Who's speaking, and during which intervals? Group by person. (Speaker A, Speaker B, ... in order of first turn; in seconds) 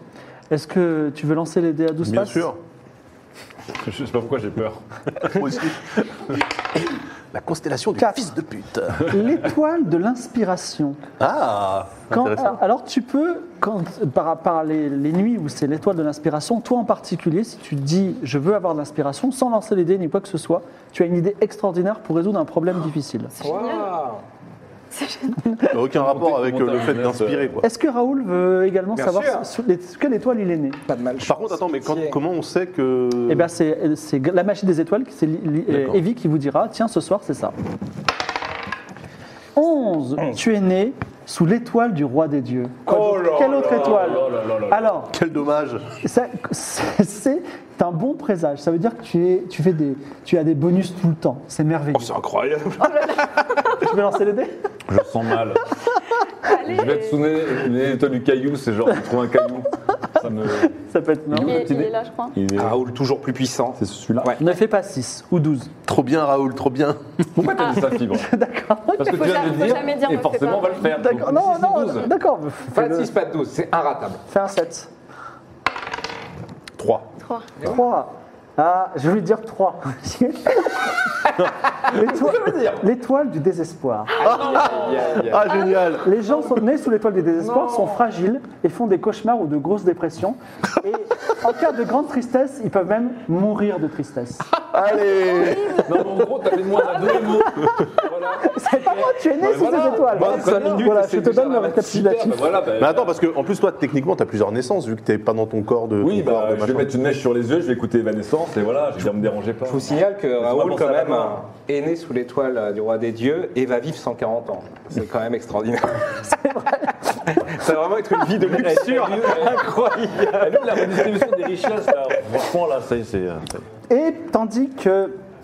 Speaker A: 0.5-2.5, 8.0-8.3, 9.0-11.0, 12.1-23.4, 27.6-30.8, 33.3-37.5, 39.5-45.1, 46.0-52.1, 53.8-54.5, 60.6-61.6, 64.4-65.7, 67.9-69.7, 70.9-73.1, 74.3-74.9, 77.6-81.0, 81.8-84.2, 86.0-94.5, 97.7-102.5, 116.5-116.9, 123.9-125.2
Speaker B: 2.0-2.6, 5.2-5.9, 7.3-9.2, 11.2-12.6, 25.7-27.6, 31.2-33.5, 35.7-36.0, 45.1-45.9, 65.8-67.0, 76.8-77.1, 84.2-86.1, 94.7-96.0, 102.7-106.9
Speaker C: 3.8-5.3, 25.9-27.5, 43.1-44.9, 54.9-55.7, 56.5-60.7, 61.3-62.8, 63.8-64.3, 67.3-68.3, 69.0-72.1, 84.5-85.1, 87.4-88.0, 95.8-103.2, 106.0-111.4, 118.4-123.7
Speaker D: 23.4-24.2, 28.9-29.4, 30.9-32.2, 42.9-44.1, 51.9-53.4, 62.5-64.4, 72.7-74.2, 84.2-85.5, 100.3-100.6, 109.7-116.4, 117.2-121.3
Speaker E: 23.4-23.9, 24.9-25.7, 52.8-53.8, 56.4-57.2, 61.4-62.4, 69.1-70.9, 77.2-77.5, 95.3-95.8